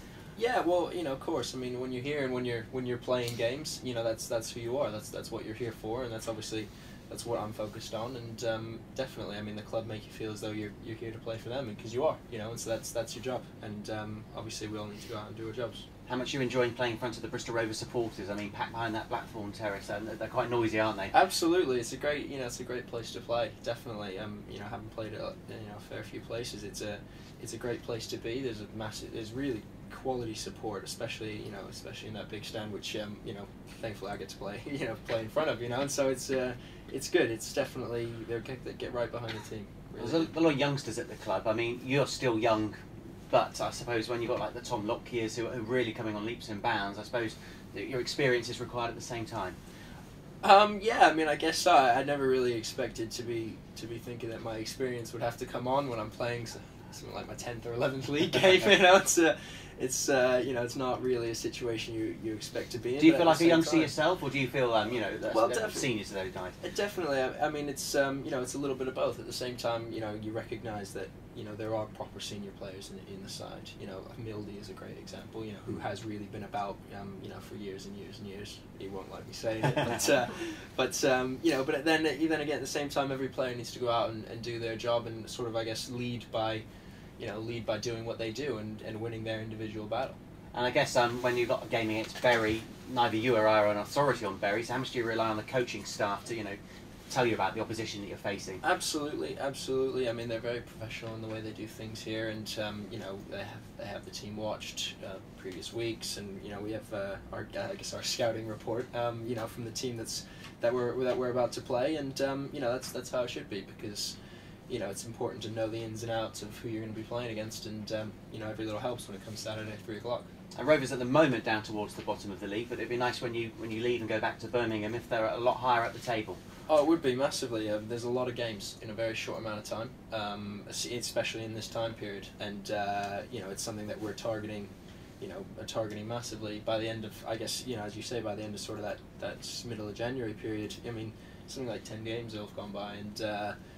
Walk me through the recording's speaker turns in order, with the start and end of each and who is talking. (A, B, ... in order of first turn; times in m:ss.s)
0:00.4-0:15.9 A
0:16.1-0:21.1 B
0:21.1-0:40.3 A
0:40.0-0:42.8 B
0:43.3-0:49.6 B
0:50.4-1:03.9 A
1:03.0-1:06.6 B
1:05.3-1:05.9 A
1:06.6-1:26.6 A
1:27.2-1:30.2 A
1:30.5-1:36.6 B
1:37.1-1:38.6 B
1:38.6-1:54.2 A
1:54.7-2:00.3 A
2:00.6-2:06.4 B
2:06.7-2:23.6 A